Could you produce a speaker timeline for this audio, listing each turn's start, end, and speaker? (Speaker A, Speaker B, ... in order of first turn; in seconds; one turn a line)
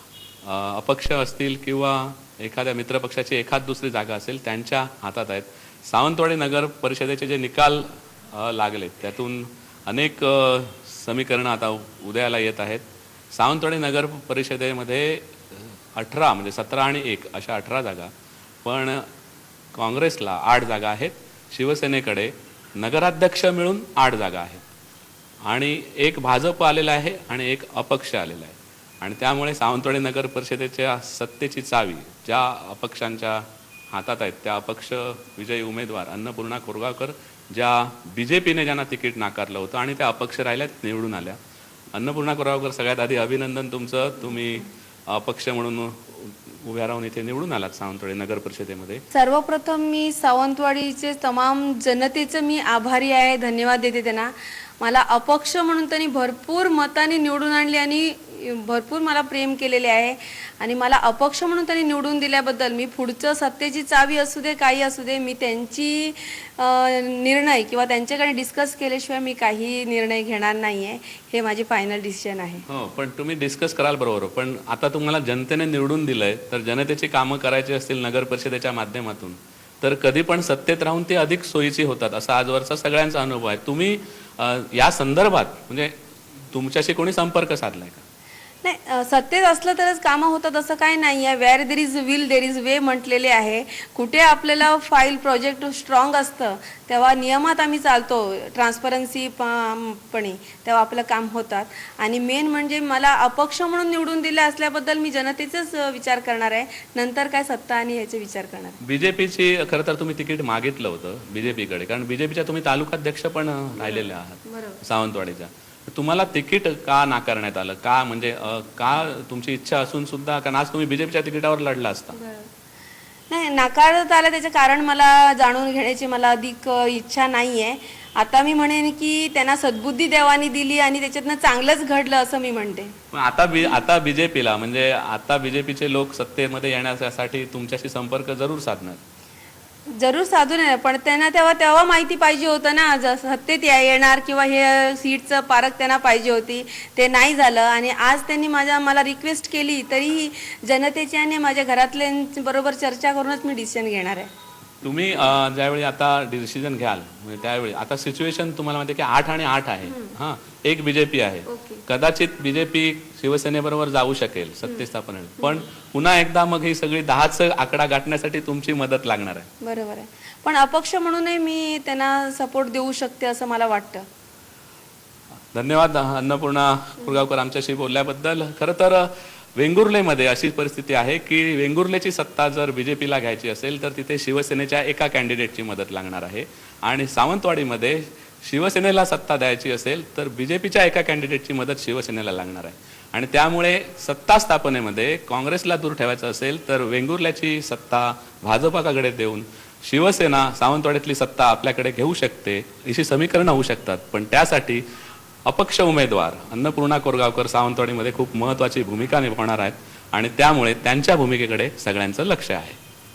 Speaker A: 0.4-18.1
Speaker A: 18.6-19.1
Speaker A: 19.7-24.7
Speaker A: 25.4-41.4
Speaker A: 41.9-49.0
Speaker B: 49.1-72.6
Speaker A: 72.7-85.9
Speaker A: 86.5-88.0
Speaker B: 88.6-108.8
Speaker A: 108.8-122.2
Speaker B: 113.8-114.8
Speaker B: 122.1-122.5
Speaker B: 123.3-132.9
Speaker A: 133.1-139.0
Speaker B: 139.9-154.3
Speaker A: 154.8-169.5
Speaker B: 159.8-160.1
Speaker B: 161.5-161.8
Speaker B: 169.6-174.1
Speaker A: 175.5-204.8
Speaker A: 205.4-212.8